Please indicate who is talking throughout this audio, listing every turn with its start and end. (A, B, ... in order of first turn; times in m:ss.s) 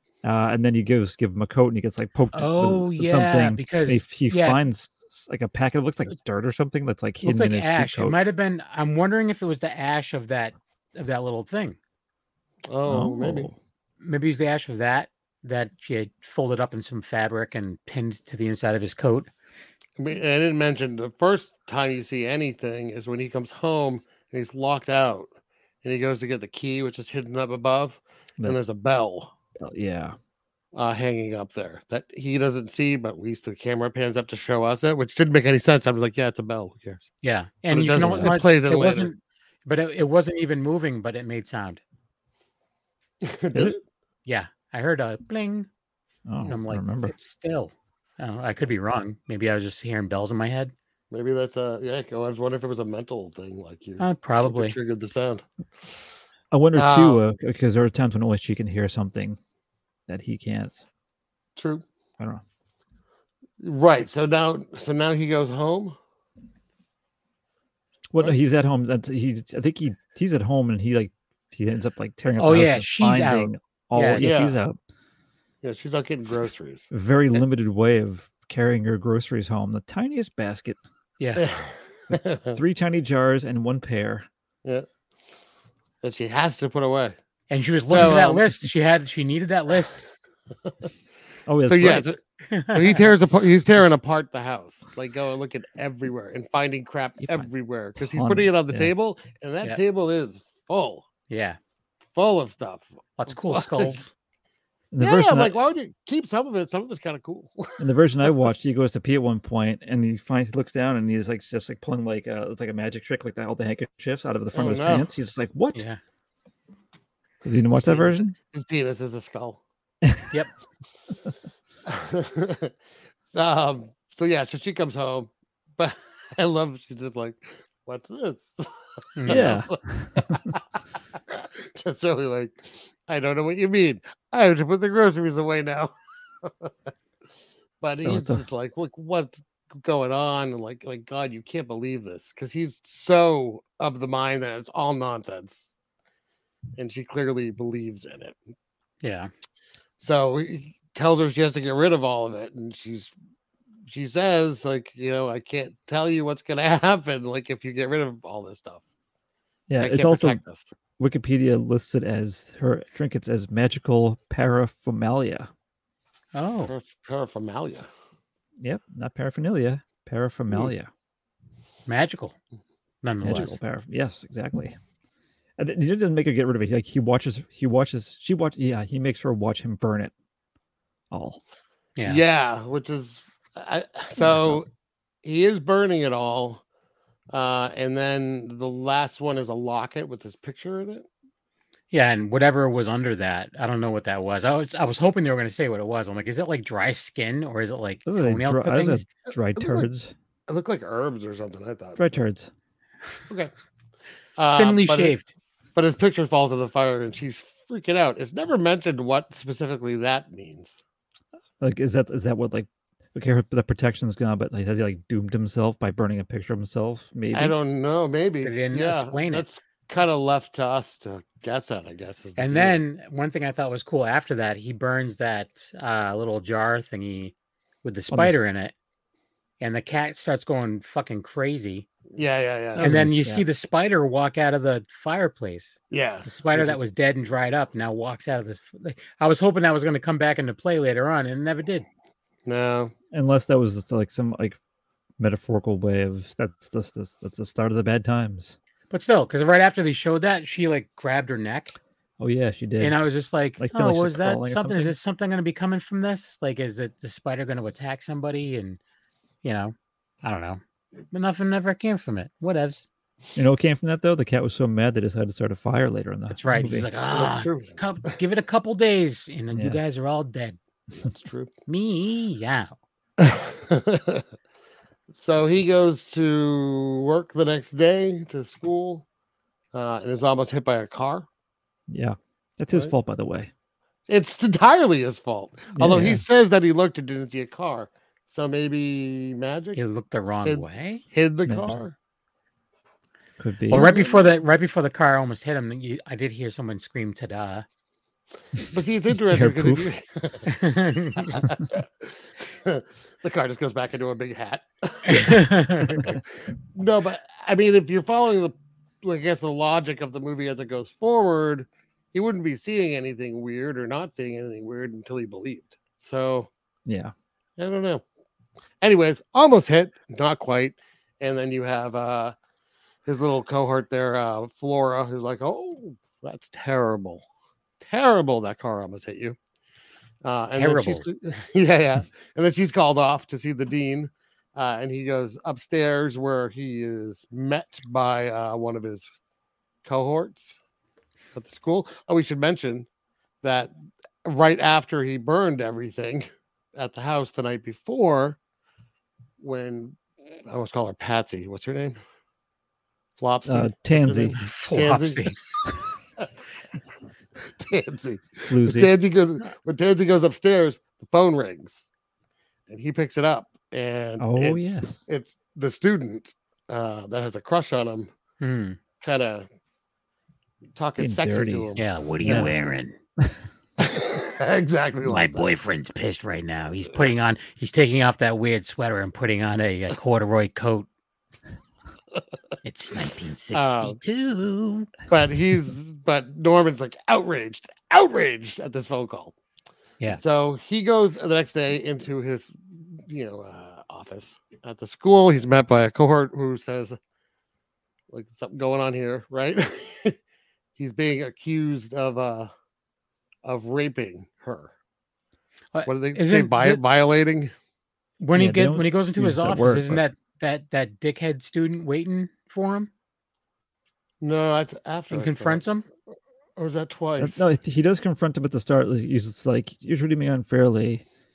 0:00.2-0:08.2 A
0:02.3-0:04.6 B
0:07.2-0:11.8 B
0:12.7-0:13.5 C
0:12.9-0:13.6 A
0:14.0-0:19.3 B
0:20.0-0:25.3 C
0:25.8-0:29.3 C
0:29.6-0:30.2 A
0:30.7-0:37.1 C
0:37.2-0:41.8 B
0:37.7-0:39.1 C
0:37.9-0:38.4 A
0:43.2-0:43.8 C
0:44.2-0:45.7 B
0:46.3-0:47.1 A
0:46.4-0:50.7 B
0:51.1-0:55.4 C
0:54.0-0:54.8 B
0:56.5-0:59.4 A
0:56.7-0:57.2 C
1:00.1-1:00.8 A
1:01.6-1:01.8 C
1:03.6-1:06.0 C
1:08.1-1:14.8 A
1:12.4-1:14.3 B
1:14.2-1:14.6 C
1:15.6-1:17.4 C
1:16.9-1:20.8 A
1:21.2-1:21.4 B
1:21.4-1:22.6 C
1:22.1-1:24.2 A
1:26.0-1:27.2 C
1:27.5-1:30.0 B
1:27.9-1:28.4 C
1:31.5-1:32.1 A
1:31.6-1:41.1 C
1:32.5-1:33.1 B
1:37.2-1:38.9 A
1:41.3-1:41.6 B
1:42.1-1:44.1 C
1:43.2-1:44.0 B
1:44.9-1:45.5 A
1:45.0-1:47.8 C
1:47.8-1:55.8 A
1:54.5-1:55.1 C
1:57.4-1:58.3 A
1:57.7-1:59.6 C
2:00.0-2:00.3 A
2:01.8-2:02.7 C
2:03.3-2:16.9 C
2:09.2-2:09.6 B
2:09.3-2:10.4 A
2:17.8-2:25.7 C
2:18.0-2:18.4 A
2:26.8-2:28.4 C
2:29.0-2:29.3 B
2:30.0-2:33.1 C
2:33.9-2:38.8 C
2:39.7-2:40.4 A
2:39.8-2:40.7 C
2:41.0-2:45.5 A
2:46.3-2:46.7 B
2:46.7-2:47.9 C
2:48.6-2:50.9 A
2:51.9-2:52.4 B
2:53.0-2:53.5 B
2:53.2-2:54.8 A
2:55.6-3:00.1 A
3:01.1-3:01.4 A
3:02.0-3:02.2 B
3:02.0-3:04.7 C
3:04.2-3:04.6 A
3:05.2-3:06.6 C
3:07.3-3:11.1 C
3:11.9-3:19.0 B
3:18.0-3:20.1 A
3:19.6-3:19.8 C
3:20.5-3:22.2 C
3:22.0-3:22.5 A
3:24.4-3:25.1 C
3:24.5-3:25.3 B
3:25.8-3:30.8 C
3:31.6-3:37.6 A
3:37.3-3:42.8 C
3:38.4-3:39.4 B
3:42.4-3:48.7 B
3:48.1-3:48.4 A
3:49.6-3:51.8 B
3:52.1-3:53.0 C
3:52.8-3:53.4 A
3:52.8-4:01.8 B
3:55.9-3:56.8 C
4:02.4-4:02.9 C
4:03.1-4:04.6 A
4:05.2-4:08.6 A
4:08.9-4:11.8 B
4:12.2-4:13.0 A
4:12.8-4:18.8 B
4:13.6-4:15.0 A
4:19.4-4:22.8 B
4:23.4-4:26.9 A
4:26.3-4:30.6 B
4:27.1-4:27.8 C
4:29.5-4:29.8 A
4:30.9-4:31.5 C
4:31.7-4:32.7 B
4:33.2-4:34.2 C
4:35.1-4:39.0 C
4:39.7-4:41.3 C
4:41.9-4:43.5 A
4:44.1-4:49.8 C
4:45.7-4:46.2 A
4:49.7-4:51.0 B
4:50.4-4:51.9 C
4:51.4-4:51.8 A
4:53.4-4:53.9 A
4:53.7-4:57.6 B
4:53.7-4:54.3 C
4:58.7-5:00.5 C
4:59.3-4:59.9 A
5:00.5-5:01.4 B
5:01.2-5:16.5 C
5:05.0-5:06.2 B
5:16.8-5:17.1 A
5:17.6-5:18.0 C
5:18.8-5:22.3 C
5:23.0-5:27.2 C
5:27.8-5:29.4 C
5:30.2-5:39.1 C
5:30.6-5:31.0 B
5:39.8-5:40.6 C
5:41.3-5:42.9 C
5:43.4-5:48.4 C
5:49.4-5:52.0 C
5:53.2-5:55.3 C
5:53.4-5:54.4 A
5:54.4-5:55.4 B
5:57.4-6:01.8 C
5:58.5-5:58.9 A
6:02.7-6:08.1 C
6:04.2-6:05.0 A
6:08.4-6:08.8 B
6:09.0-6:09.5 C
6:10.7-6:12.5 C
6:11.0-6:11.7 A
6:11.8-6:13.0 B
6:12.2-6:12.5 A
6:13.8-6:15.4 C
6:15.0-6:20.9 B
6:22.6-6:24.9 B
6:23.5-6:24.0 C
6:25.1-6:29.3 C
6:30.1-6:37.0 C
6:38.1-6:40.2 C
6:40.8-6:42.5 C
6:43.4-6:44.7 C
6:45.7-6:46.8 B
6:45.8-6:47.5 C
6:48.2-6:52.9 B
6:48.3-6:50.0 A
6:54.2-6:55.6 C
6:55.1-6:55.8 B
6:56.6-6:57.5 C
6:57.2-7:01.0 A